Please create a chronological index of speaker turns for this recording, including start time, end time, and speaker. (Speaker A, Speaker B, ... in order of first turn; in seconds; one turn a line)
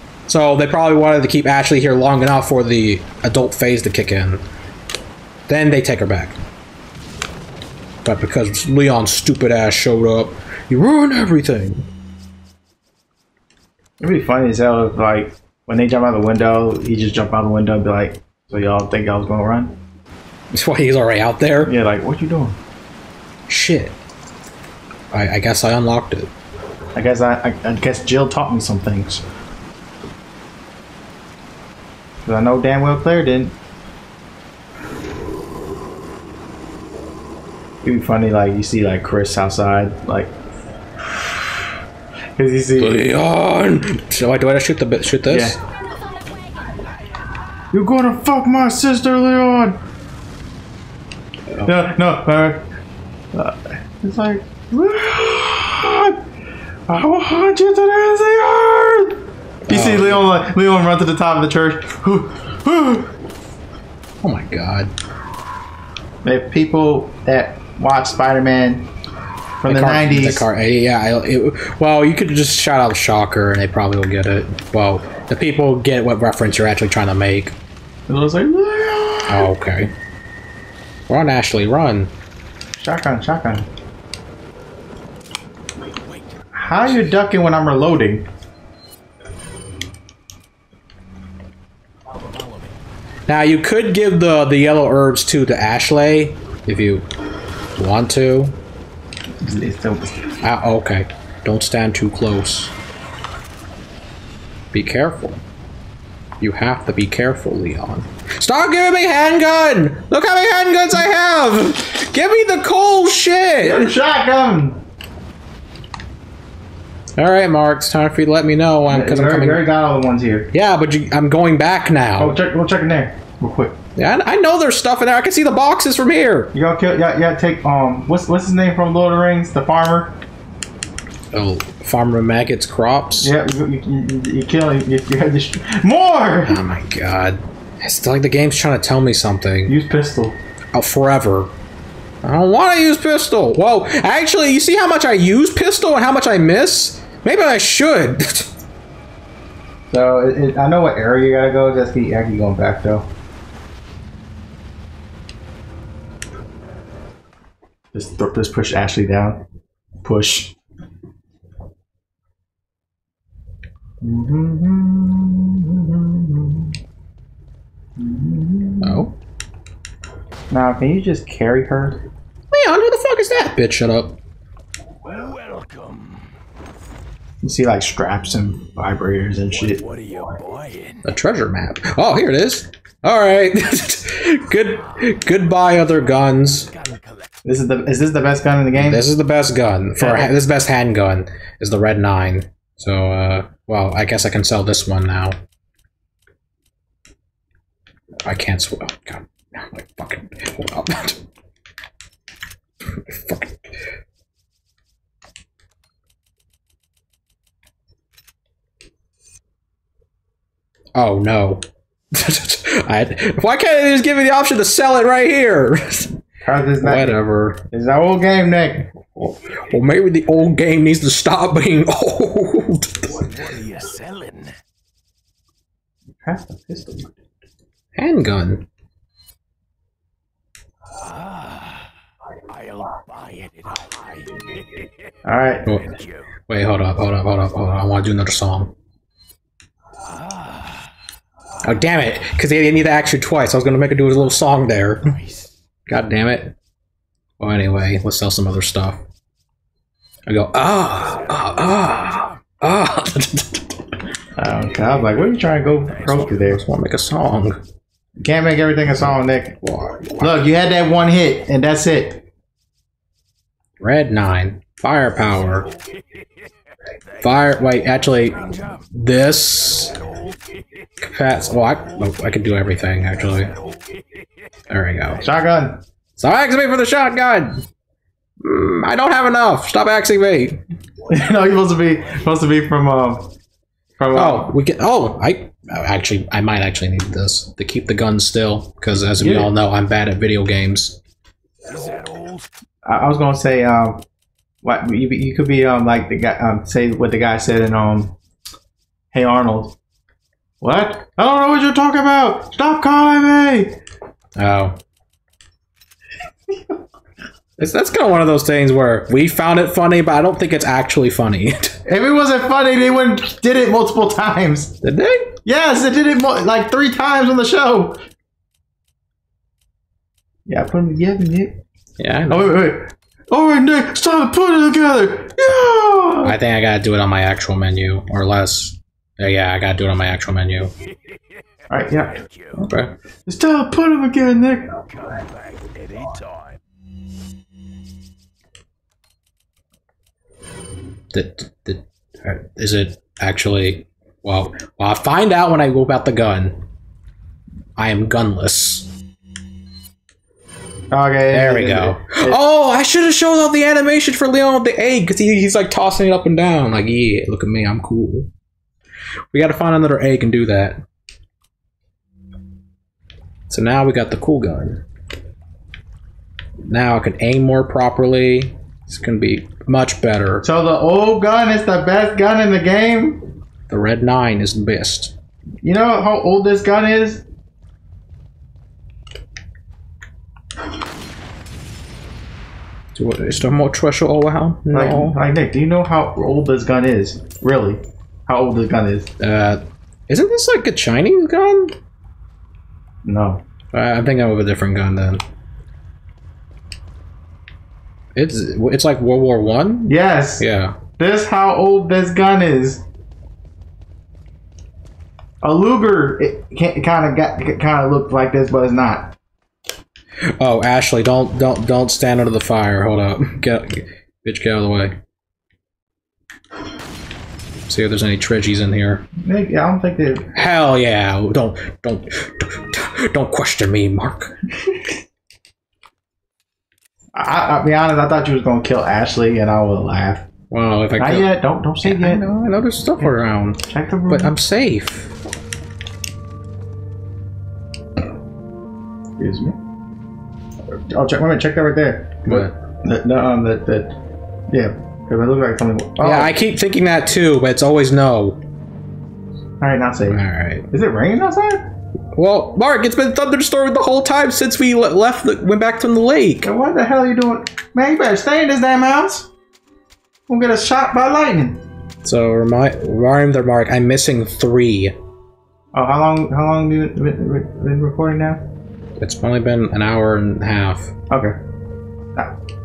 Speaker A: 0.3-4.4
Speaker A: 5.5-6.4
Speaker A: 8.1-11.9
Speaker B: 14.0-19.8
Speaker A: 20.5-21.7
Speaker B: 21.6-22.6
Speaker A: 23.5-24.0
Speaker A: 25.1-26.3
Speaker B: 26.9-29.2
Speaker B: 32.2-33.5
Speaker B: 37.8-40.4
Speaker B: 41.0-41.6
Speaker B: 42.4-43.0
Speaker A: 42.8-45.6
Speaker B: 45.3-45.6
Speaker B: 47.7-49.8
Speaker B: 51.6-52.7
Speaker B: 53.3-56.2
Speaker B: 56.9-63.1
Speaker A: 59.7-60.3
Speaker A: 64.2-64.9
Speaker B: 66.2-68.9
Speaker B: 69.6-70.5
Speaker A: 69.7-77.6
Speaker B: 78.1-79.5
Speaker A: 79.3-79.9
Speaker A: 81.1-82.1
Speaker B: 82.8-83.7
Speaker C: 85.9-86.6
Speaker B: 86.6-88.3
Speaker C: 92.2-92.8
Speaker A: 93.3-97.1
Speaker A: 97.8-98.6
Speaker B: 99.4-100.4
Speaker A: 100.4-102.7
Speaker A: 104.7-105.4
Speaker A: 106.4-113.9
Speaker B: 113.6-114.8
Speaker A: 117.2-119.7
Speaker B: 118.9-120.5
Speaker A: 120.5-122.4
Speaker B: 122.2-123.8
Speaker A: 124.0-126.5
Speaker B: 126.5-130.2
Speaker A: 131.3-133.3
Speaker B: 133.2-136.6
Speaker A: 136.5-139.7
Speaker B: 139.7-140.4
Speaker A: 140.7-141.5
Speaker A: 142.2-148.5
Speaker B: 149.9-153.1
Speaker B: 157.9-159.4
Speaker B: 160.0-160.6
Speaker B: 164.0-166.7
Speaker B: 168.0-169.1
Speaker A: 168.8-169.1
Speaker B: 170.5-172.1
Speaker A: 172.5-174.2
Speaker C: 175.0-176.3
Speaker B: 177.4-179.8
Speaker C: 179.5-181.1
Speaker A: 181.1-186.7
Speaker C: 186.7-187.3
Speaker B: 187.4-189.1
Speaker A: 188.8-195.4
Speaker B: 190.0-190.3
Speaker A: 198.2-201.2
Speaker A: 202.9-203.8
Speaker A: 210.9-216.2
Speaker B: 216.4-218.9
Speaker A: 216.8-217.6
Speaker A: 219.2-223.3
Speaker C: 223.1-224.6
Speaker B: 226.2-227.2
Speaker A: 227.9-228.7
Speaker C: 231.0-231.9
Speaker C: 232.5-234.9
Speaker B: 235.2-235.7
Speaker A: 235.7-235.9
Speaker C: 235.7-236.3
Speaker A: 236.5-238.7
Speaker C: 240.1-240.8
Speaker A: 241.6-245.1
Speaker C: 245.1-245.5
Speaker A: 245.9-246.6
Speaker A: 247.4-249.0
Speaker A: 250.3-253.8
Speaker C: 251.0-252.3
Speaker B: 254.4-256.6
Speaker A: 256.0-257.6
Speaker B: 258.2-259.6
Speaker A: 259.6-260.4
Speaker B: 260.2-262.2
Speaker A: 263.8-265.7
Speaker C: 265.6-266.2
Speaker A: 267.2-268.4
Speaker C: 268.4-268.8
Speaker A: 268.9-269.9
Speaker C: 270.0-270.5
Speaker A: 271.0-273.5
Speaker C: 273.6-274.0
Speaker A: 274.7-275.2
Speaker B: 275.2-275.8
Speaker A: 276.2-277.6
Speaker A: 278.4-280.6
Speaker B: 281.1-283.3
Speaker B: 284.0-284.5
Speaker A: 284.1-291.0
Speaker B: 289.2-289.5
Speaker C: 291.7-292.5
Speaker B: 292.9-294.0
Speaker B: 294.6-298.2
Speaker B: 299.1-299.8
Speaker B: 300.6-303.8
Speaker A: 304.4-304.8
Speaker A: 307.6-311.8
Speaker B: 311.9-314.8
Speaker A: 314.8-315.4
Speaker B: 315.4-318.0
Speaker B: 320.5-321.6
Speaker A: 322.0-322.6
Speaker B: 322.3-326.4
Speaker A: 326.2-330.7
Speaker B: 331.7-332.2
Speaker C: 331.7-332.6
Speaker A: 332.6-332.9
Speaker B: 333.3-334.8
Speaker C: 334.9-336.6
Speaker A: 341.1-346.6
Speaker A: 347.8-348.9
Speaker B: 350.9-352.4
Speaker A: 351.3-358.3
Speaker A: 359.3-360.8
Speaker A: 363.5-364.8
Speaker A: 366.6-370.4
Speaker B: 370.4-373.3
Speaker A: 373.7-375.1
Speaker B: 375.6-377.2
Speaker A: 382.9-385.2
Speaker B: 384.7-389.1
Speaker A: 389.2-391.8
Speaker B: 393.1-393.4
Speaker A: 393.7-395.2
Speaker A: 398.1-400.8
Speaker B: 399.9-400.5
Speaker B: 401.0-402.8
Speaker B: 405.4-409.1
Speaker A: 410.4-415.0
Speaker A: 417.7-419.1
Speaker B: 419.2-420.3
Speaker A: 420.3-424.3
Speaker B: 427.1-430.3
Speaker A: 430.5-435.1
Speaker B: 431.0-432.3
Speaker B: 433.6-434.3
Speaker B: 439.2-439.6
Speaker B: 440.7-444.0
Speaker A: 442.3-442.6
Speaker B: 444.5-446.4
Speaker A: 446.0-448.4
Speaker B: 449.6-451.7
Speaker A: 450.1-450.7
Speaker A: 452.1-456.5
Speaker B: 456.4-459.3
Speaker B: 460.3-461.6
Speaker A: 462.0-464.9
Speaker B: 465.7-468.4
Speaker A: 469.0-470.9
Speaker B: 471.1-471.4